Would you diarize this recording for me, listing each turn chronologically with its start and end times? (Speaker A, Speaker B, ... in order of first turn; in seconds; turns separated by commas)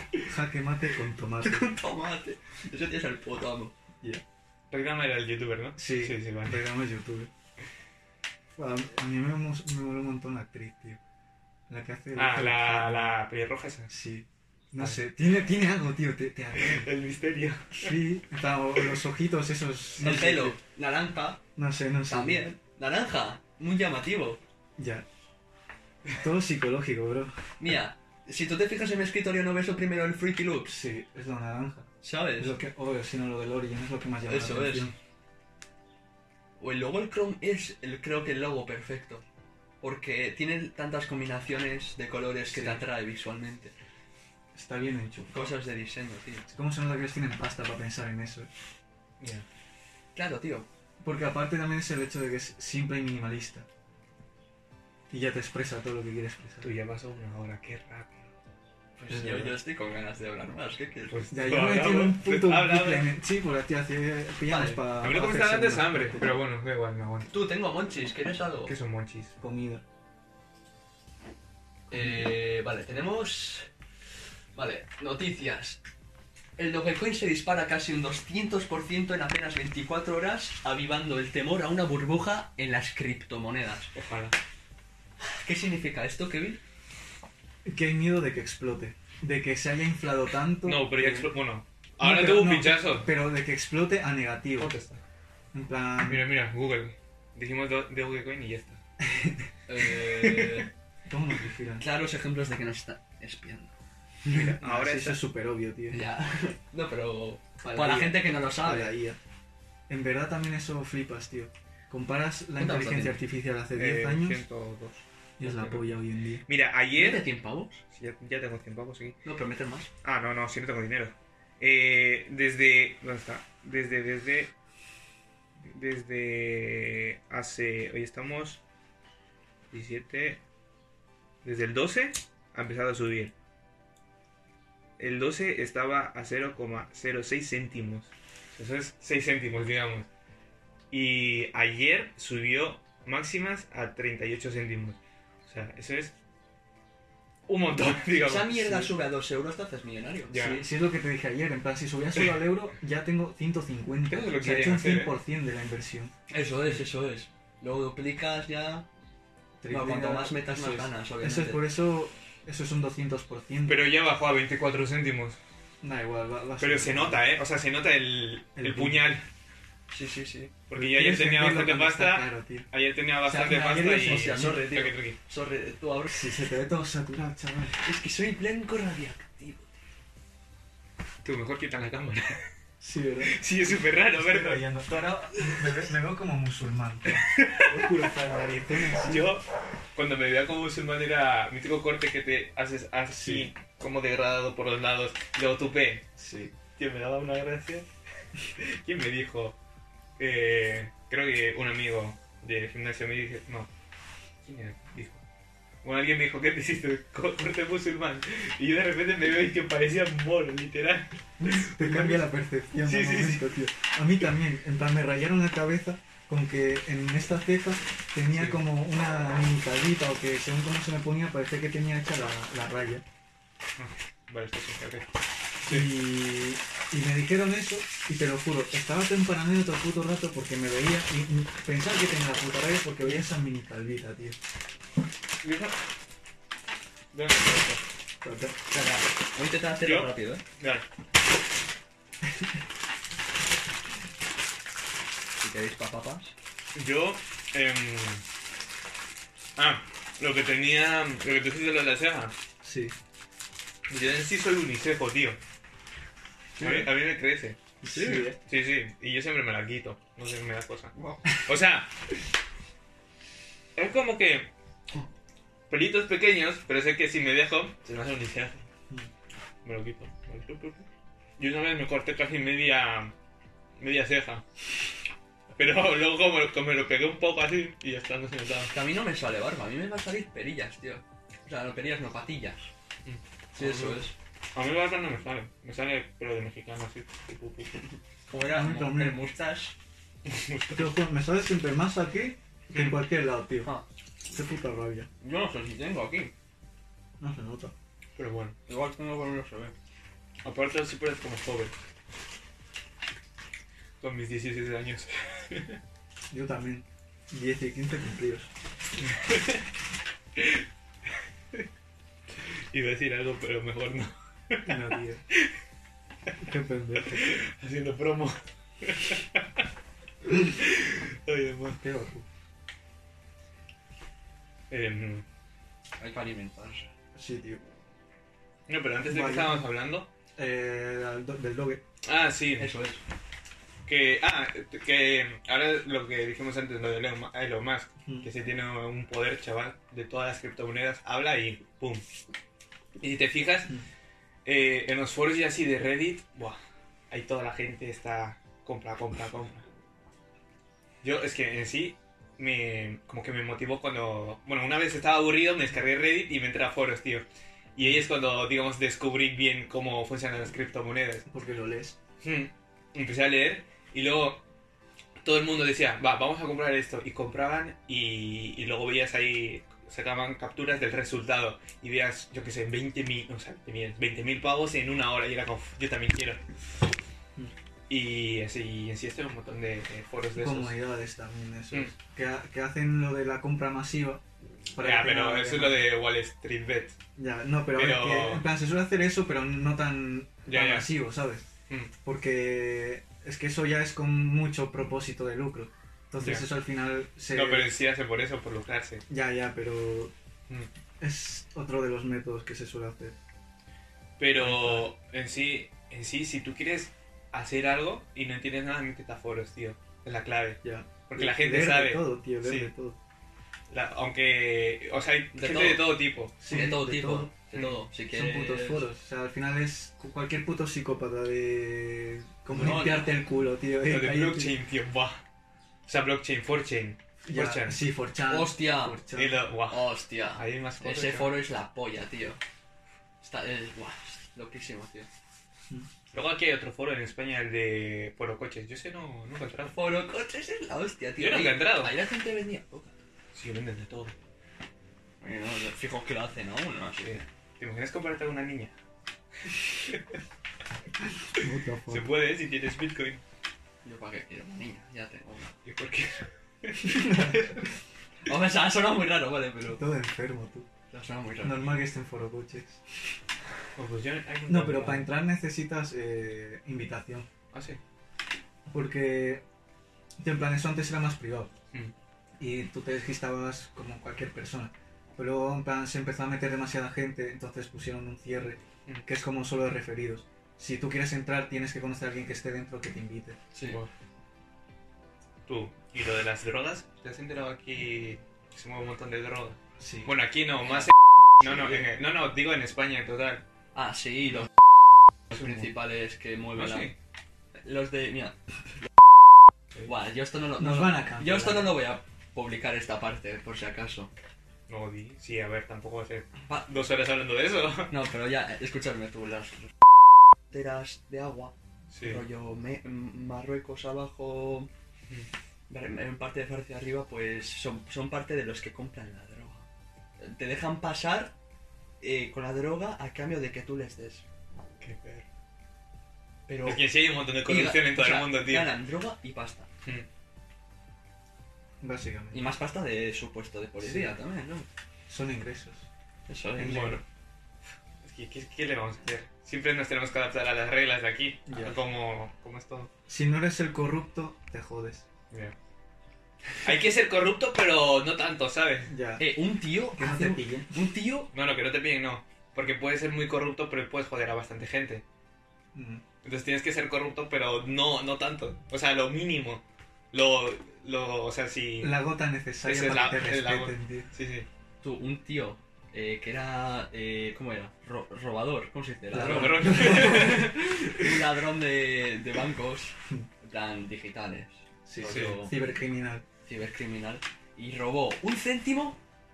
Speaker A: 0.2-1.7, Speaker B: 1.4-3.7, Speaker C: 4.7-6.6, Speaker A: 5.8-7.3, Speaker A: 8.6-11.0, Speaker A: 11.7-13.1, Speaker C: 12.2-13.9, Speaker A: 13.9-16.9, Speaker C: 16.6-18.0, Speaker A: 17.8-20.6, Speaker B: 20.0-21.4, Speaker A: 21.6-22.5, Speaker B: 22.1-24.4, Speaker A: 24.8-25.0, Speaker A: 26.2-27.3, Speaker B: 27.6-30.8, Speaker A: 30.7-34.9, Speaker B: 32.0-32.6, Speaker B: 34.2-34.9, Speaker B: 36.6-39.2, Speaker B: 39.8-43.7, Speaker A: 42.5-42.8, Speaker A: 44.5-45.5, Speaker B: 45.3-46.5, Speaker A: 46.5-48.5, Speaker C: 49.2-49.4, Speaker B: 50.1-50.7, Speaker A: 51.0-53.7, Speaker A: 55.1-56.7, Speaker C: 56.6-58.3, Speaker B: 59.0-61.2, Speaker A: 59.1-59.5, Speaker C: 61.1-63.1, Speaker A: 61.3-66.4, Speaker B: 64.5-64.8, Speaker C: 65.0-67.3, Speaker B: 67.3-68.7, Speaker C: 68.7-69.3, Speaker A: 69.4-69.8, Speaker B: 71.9-73.7, Speaker A: 71.9-72.2, Speaker B: 74.5-75.8, Speaker B: 76.6-83.9, Speaker C: 83.9-84.3, Speaker B: 85.2-86.6, Speaker A: 87.6-91.3, Speaker C: 90.6-93.1, Speaker A: 92.0-94.7, Speaker C: 94.6-95.0, Speaker A: 95.5-96.3, Speaker C: 96.0-98.8, Speaker A: 99.0-99.4, Speaker B: 99.7-100.7, Speaker C: 100.2-100.6, Speaker A: 101.1-101.8, Speaker B: 101.8-103.7, Speaker A: 104.2-106.0, Speaker C: 104.3-105.2, Speaker B: 105.9-108.9, Speaker A: 107.6-109.2, Speaker A: 109.9-114.4, Speaker B: 112.6-113.2, Speaker C: 113.7-115.9, Speaker A: 115.4-116.4, Speaker C: 116.5-117.2, Speaker B: 116.9-117.8, Speaker C: 117.9-119.2, Speaker B: 119.2-119.9, Speaker C: 120.0-124.5, Speaker C: 125.7-128.6, Speaker C: 129.7-130.4, Speaker C: 131.4-133.3, Speaker C: 135.0-140.1, Speaker C: 140.9-146.2, Speaker C: 147.5-148.7, Speaker B: 148.2-150.6, Speaker A: 148.6-148.9, Speaker C: 150.3-150.7, Speaker A: 150.4-156.1, Speaker C: 154.1-155.1, Speaker B: 156.3-158.9, Speaker A: 159.6-163.9, Speaker B: 159.7-161.7, Speaker C: 163.7-165.4, Speaker A: 165.8-167.2, Speaker C: 166.6-169.2, Speaker A: 168.6-169.1, Speaker B: 169.9-170.5, Speaker C: 170.7-175.2, Speaker A: 170.7-172.7, Speaker A: 173.2-174.7, Speaker B: 173.9-176.3, Speaker A: 176.1-177.8, Speaker B: 177.8-179.7, Speaker C: 181.2-182.4, Speaker A: 182.8-183.4, Speaker C: 183.2-184.8, Speaker A: 184.1-189.3, Speaker C: 187.2-188.0, Speaker C: 188.9-196.1, Speaker A: 193.1-193.5, Speaker A: 196.2-196.5, Speaker C: 196.8-197.9, Speaker C: 198.6-199.6, Speaker C: 200.2-203.7, Speaker C: 204.4-205.2, Speaker C: 205.8-212.2, Speaker A: 211.4-223.0, Speaker C: 212.8-213.4, Speaker C: 218.3-218.6, Speaker C: 223.8-225.1, Speaker C: 225.6-225.9, Speaker A: 225.7-234.4, Speaker C: 235.4-235.7, Speaker C: 237.1-237.8, Speaker A: 238.2-238.6, Speaker B: 238.7-240.4, Speaker C: 239.8-240.8, Speaker B: 245.4-246.3, Speaker C: 246.7-248.2, Speaker C: 249.6-252.3, Speaker A: 252.6-252.9, Speaker C: 253.9-255.4, Speaker C: 256.6-257.6, Speaker B: 256.6-256.9, Speaker A: 257.8-258.4, Speaker B: 257.9-258.3, Speaker C: 258.5-261.9, Speaker B: 261.0-261.2, Speaker C: 263.8-264.5, Speaker C: 265.7-268.6, Speaker C: 269.6-273.1, Speaker C: 273.8-274.4, Speaker C: 275.5-278.7, Speaker B: 278.7-282.7, Speaker C: 283.0-284.0, Speaker B: 283.5-284.1, Speaker C: 284.5-287.8, Speaker B: 288.3-289.7, Speaker A: 288.4-289.3, Speaker C: 290.2-290.9, Speaker A: 290.7-293.7, Speaker C: 292.7-293.0, Speaker A: 294.3-295.1, Speaker B: 295.2-296.3, Speaker A: 297.2-297.7, Speaker C: 298.1-298.6, Speaker B: 298.7-299.7, Speaker C: 300.4-301.7, Speaker C: 304.0-305.8, Speaker A: 306.3-308.5, Speaker C: 309.0-309.6, Speaker C: 310.4-310.6, Speaker C: 312.7-315.5, Speaker A: 314.6-315.2, Speaker A: 316.4-317.3, Speaker C: 317.1-319.6, Speaker C: 320.2-321.8, Speaker A: 321.7-322.2, Speaker C: 324.7-325.2, Speaker B: 326.0-326.9, Speaker A: 327.1-327.6, Speaker C: 328.7-330.1, Speaker A: 329.0-329.6, Speaker A: 330.4-331.8, Speaker C: 332.0-332.7, Speaker B: 332.6-333.0, Speaker C: 333.9-342.0, Speaker C: 343.0-343.7, Speaker C: 344.4-346.6, Speaker C: 347.1-349.6, Speaker C: 351.0-361.2, Speaker A: 361.3-362.0, Speaker C: 362.2-364.4, Speaker C: 365.2-376.4, Speaker C: 377.9-380.8, Speaker A: 380.4-384.2, Speaker A: 384.7-385.8, Speaker C: 384.8-387.0, Speaker A: 387.1-391.5, Speaker C: 387.7-388.4, Speaker C: 390.5-390.9, Speaker A: 392.0-397.7, Speaker C: 396.2-396.4, Speaker C: 397.3-399.0, Speaker A: 399.1-400.1, Speaker A: 401.0-403.2, Speaker C: 404.2-412.7, Speaker A: 404.4-404.9, Speaker A: 410.6-413.0, Speaker C: 413.7-416.4, Speaker B: 415.3-415.9, Speaker A: 416.4-417.3, Speaker B: 416.5-418.9, Speaker C: 417.5-417.8, Speaker A: 418.1-424.5, Speaker B: 422.5-423.1, Speaker C: 423.8-425.2, Speaker C: 425.9-427.8, Speaker A: 427.2-429.4, Speaker B: 428.3-429.0, Speaker C: 429.1-431.4, Speaker B: 429.7-432.4, Speaker B: 433.2-435.1, Speaker C: 436.1-439.8, Speaker B: 439.7-443.0, Speaker C: 441.2-441.9, Speaker C: 443.3-444.1, Speaker B: 445.2-447.2, Speaker C: 447.0-448.8, Speaker A: 451.3-452.1, Speaker C: 451.9-453.2, Speaker B: 453.8-455.6, Speaker C: 455.6-457.6, Speaker A: 456.8-457.6, Speaker B: 458.2-459.8, Speaker A: 459.7-460.7, Speaker B: 460.9-461.8, Speaker A: 461.4-462.8, Speaker C: 463.8-465.1, Speaker A: 464.5-467.3, Speaker C: 467.5-467.8, Speaker A: 468.7-469.4, Speaker A: 470.2-471.5, Speaker A: 472.4-483.4, Speaker B: 483.5-483.9, Speaker C: 485.5-493.4, Speaker A: 489.8-490.1, Speaker B: 493.7-494.5, Speaker B: 495.3-496.9, Speaker C: 495.3-495.6, Speaker C: 496.5-496.9, Speaker B: 497.6-498.4, Speaker B: 499.8-504.1, Speaker A: 500.6-501.8, Speaker C: 504.7-507.9, Speaker B: 507.9-509.7, Speaker B: 510.5-514.7, Speaker C: 511.9-512.2, Speaker B: 515.7-519.7, Speaker B: 520.2-521.3, Speaker B: 522.0-524.2, Speaker C: 524.8-525.2, Speaker B: 526.5-526.8, Speaker C: 526.6-528.7, Speaker B: 527.4-529.7, Speaker A: 531.8-532.4, Speaker B: 532.3-534.7, Speaker A: 533.8-534.1, Speaker A: 535.1-535.9, Speaker B: 536.3-537.0, Speaker A: 536.5-537.0, Speaker C: 536.6-537.0, Speaker C: 538.0-542.9, Speaker A: 541.5-541.8, Speaker A: 543.1-545.0, Speaker C: 546.6-548.9, Speaker A: 548.9-549.3, Speaker B: 549.2-551.3, Speaker A: 549.9-550.8, Speaker C: 551.3-555.0, Speaker A: 555.7-556.0, Speaker C: 556.2-562.0, Speaker A: 561.8-564.1, Speaker C: 562.6-564.5, Speaker B: 564.8-575.5, Speaker A: 569.1-570.4, Speaker C: 569.1-570.7, Speaker A: 574.9-576.2, Speaker C: 575.0-575.4, Speaker B: 576.5-579.0